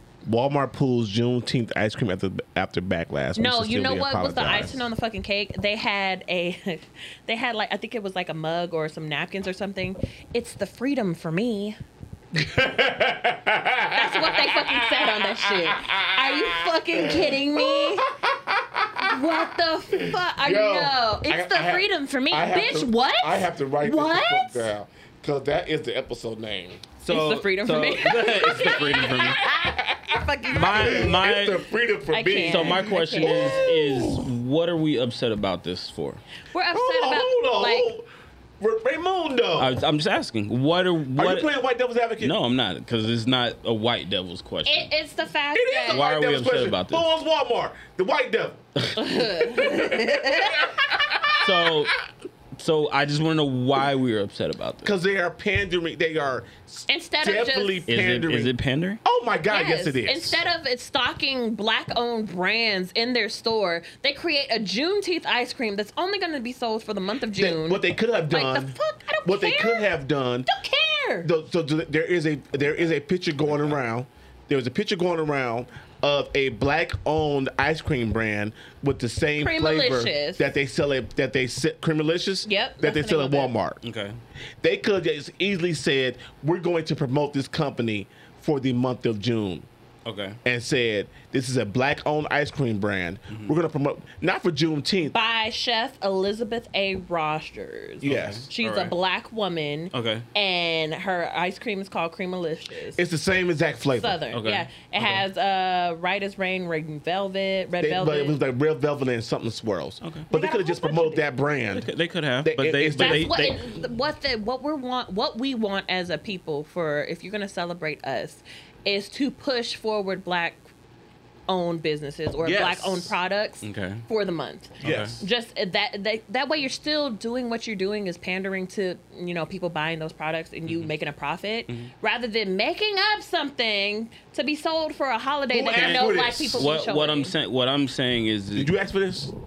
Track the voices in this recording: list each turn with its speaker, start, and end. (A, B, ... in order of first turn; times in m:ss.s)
0:00.2-0:04.8 A
0:03.4-0:11.8 B
0:12.3-0:26.9 A
0:13.9-0:18.1 B
0:19.0-0:24.7 B
0:27.0-0:29.4 C
0:27.1-0:31.2 B
0:28.6-0:34.3 A
0:30.5-0:31.6 C
0:32.1-0:33.7 B
0:32.5-0:36.2 C
0:36.5-0:37.9 B
0:36.7-0:38.0 A
0:38.6-0:39.8 A
0:39.6-0:41.5 C
0:41.1-0:42.3 A
0:42.2-0:44.9 C
0:44.6-0:46.0 B
0:45.5-0:48.6 A
0:45.9-0:47.1 C
0:48.9-0:50.7 B
0:49.4-0:51.8 A
0:51.4-0:52.0 C
0:52.6-0:54.9 C
0:54.8-1:00.4 A
0:56.9-0:57.8 B
0:57.9-0:59.0 C
0:59.5-1:09.9 B
1:07.4-1:10.5 A
1:10.5-1:11.3 B
1:11.2-1:23.8 A
1:19.4-1:20.5 B
1:22.4-1:23.5 B
1:23.8-1:24.2 C
1:24.6-1:29.7 A
1:30.0-1:30.4 C
1:30.4-1:35.1 A
1:33.3-1:33.6 C
1:35.1-1:43.0 B
1:38.0-1:38.5 A
1:38.0-1:38.9 C
1:39.9-1:40.2 C
1:43.0-1:44.2 A
1:43.9-1:48.4 B
1:44.3-1:45.2 C
1:47.8-1:51.9 A
1:50.0-1:50.3 C
1:50.3-1:51.2 B
1:51.7-1:53.6 C
1:52.4-1:53.6 A
1:53.0-2:00.7 B
2:01.5-2:17.3 B
2:02.4-2:03.1 A
2:03.6-2:04.0 C
2:04.8-2:05.2 C
2:04.8-2:05.2 A
2:10.7-2:10.9 C
2:15.5-2:16.7 A
2:15.7-2:18.8 C
2:18.5-2:19.3 A